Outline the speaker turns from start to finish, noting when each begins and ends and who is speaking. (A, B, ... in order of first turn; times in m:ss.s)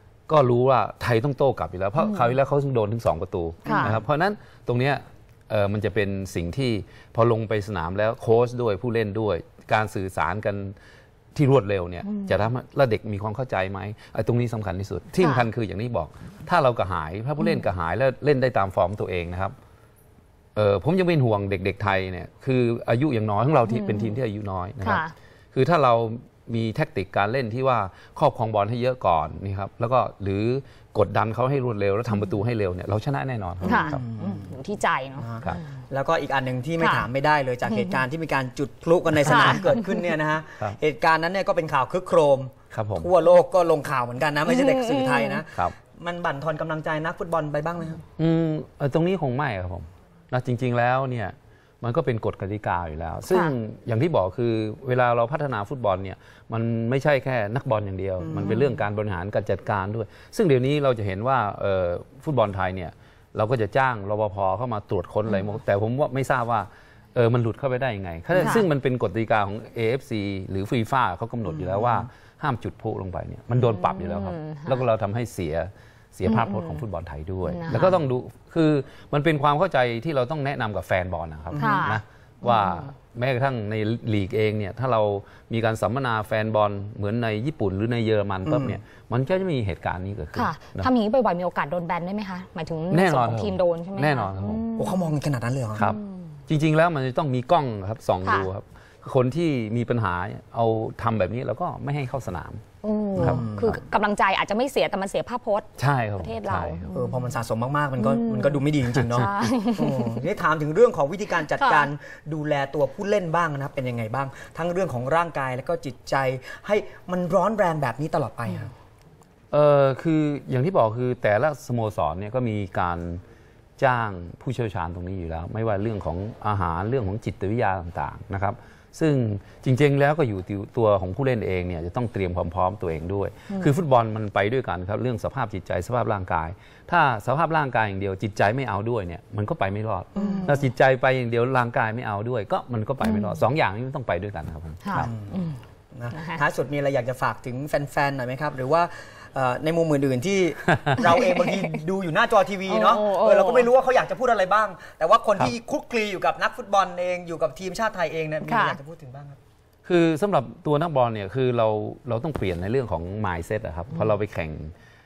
0:00.3-0:10.7 A
0:03.7-0:04.0 B
0:11.4-0:19.5 A
0:12.1-0:12.3 B
0:15.2-0:15.5 B
0:20.6-0:34.0 A
0:23.7-0:24.1 B
0:24.8-0:25.1 B
0:33.6-0:34.5 C
0:33.6-0:35.6 B
0:35.2-0:48.0 C
0:36.8-0:37.1 B
0:39.2-0:39.8 B
0:42.7-0:43.1 A
0:44.5-0:45.4 B
0:48.2-1:30.9 A
0:58.2-0:58.7 C
1:11.5-1:12.1 C
1:13.8-1:14.8 B
1:16.3-1:16.8 B
1:17.4-1:18.0 B
1:21.5-1:21.9 C
1:21.6-1:22.9 B
1:28.4-1:28.8 C
1:30.4-1:35.1 B
1:32.9-1:34.7 A
1:34.8-1:35.9 C
1:35.8-1:42.6 A
1:38.2-1:38.5 B
1:42.8-1:47.1 B
1:43.2-1:43.4 A
1:43.2-1:43.8 C
1:45.8-1:46.9 A
1:46.9-1:58.7 C
1:48.0-1:48.6 B
1:49.1-1:49.5 A
1:49.1-1:50.1 B
1:51.6-1:51.9 B
1:59.5-2:03.2 A
2:03.8-2:25.1 A
2:20.2-2:20.5 B
2:20.2-2:20.6 C
2:23.0-2:23.3 B
2:24.8-2:25.6 B
2:25.0-2:25.4 C
2:25.9-2:39.4 C
2:26.1-2:26.4 B
2:31.1-2:31.8 B
2:32.7-2:33.7 B
2:38.4-2:38.8 B
2:39.8-2:44.7 A